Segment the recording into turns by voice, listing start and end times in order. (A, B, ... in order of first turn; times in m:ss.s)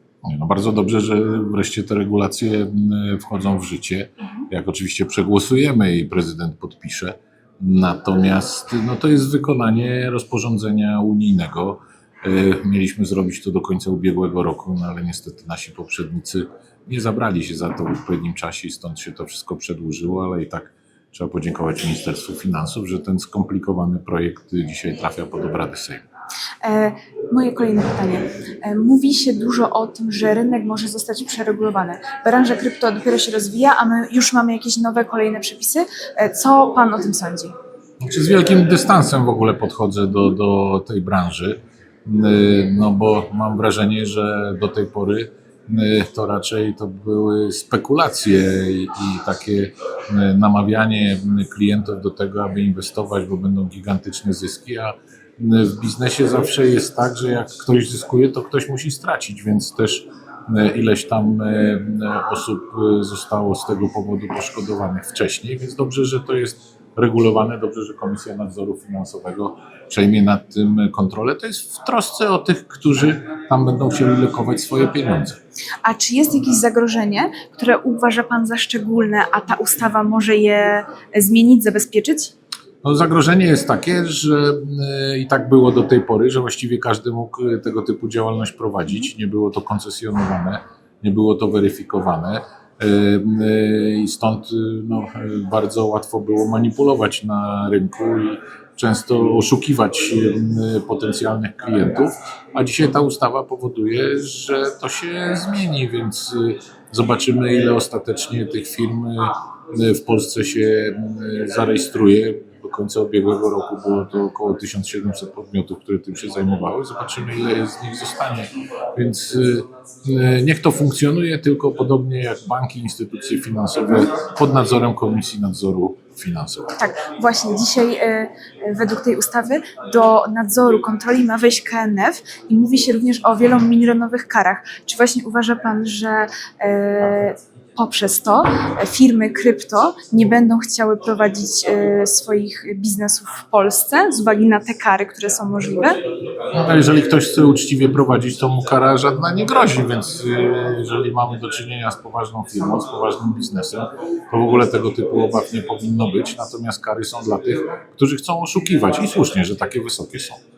0:00.2-0:26.0 A
0:26.6-0:37.6 B
0:38.0-1:15.4 A
1:15.8-1:22.3 B
1:22.8-2:06.8 A
2:06.8-2:26.0 B
2:26.5-2:40.4 A